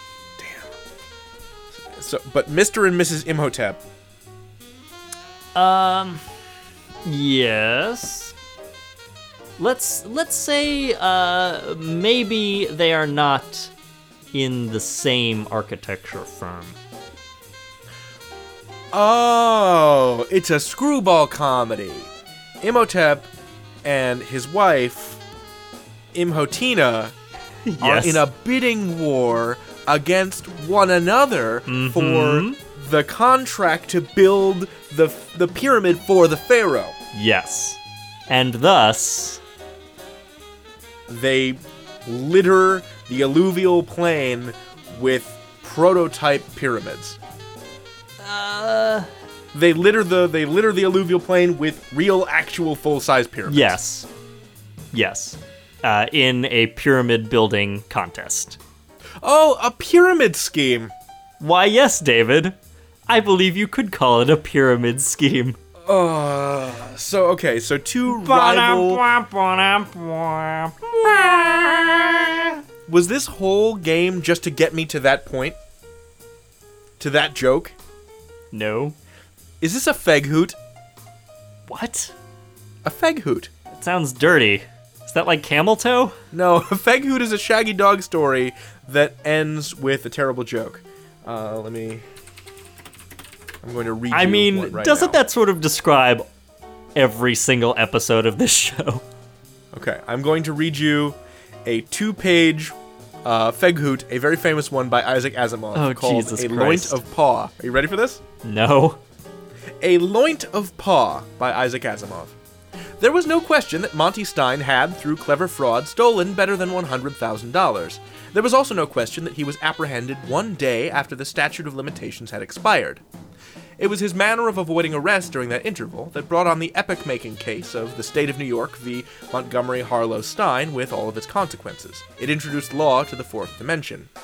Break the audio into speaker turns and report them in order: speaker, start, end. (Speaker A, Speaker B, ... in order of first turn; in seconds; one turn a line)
Speaker A: 0.4-0.7
Speaker A: 1.8-3.8
Speaker B: 5.5-6.2
Speaker B: 7.0-8.3
Speaker B: 9.6-13.7
Speaker B: 14.3-16.8
Speaker A: 18.9-22.1
Speaker A: 22.6-23.3
Speaker A: 23.8-25.2
Speaker A: 26.1-27.1
Speaker B: 27.7-28.2
Speaker A: 27.8-37.0
Speaker B: 31.7-32.6
Speaker B: 37.1-39.4
Speaker A: 41.1-47.2
Speaker B: 48.2-49.1
Speaker A: 49.5-53.8
Speaker B: 53.5-54.1
Speaker B: 54.9-58.6
Speaker A: 59.2-60.9
Speaker B: 61.4-62.6
Speaker B: 63.1-65.6
Speaker A: 65.8-69.0
Speaker B: 68.1-72.6
Speaker A: 72.9-75.6
Speaker A: 77.0-77.8
Speaker B: 78.5-79.0
Speaker A: 79.6-80.6
Speaker B: 81.7-82.1
Speaker A: 82.8-83.5
Speaker B: 83.7-86.2
Speaker A: 86.3-92.0
Speaker A: 93.6-95.2
Speaker B: 94.1-96.3
Speaker B: 97.0-99.0
Speaker A: 99.7-108.2
Speaker B: 105.7-107.0
Speaker B: 108.4-109.0
Speaker A: 109.8-112.4
Speaker A: 113.0-123.0
Speaker A: 123.8-134.1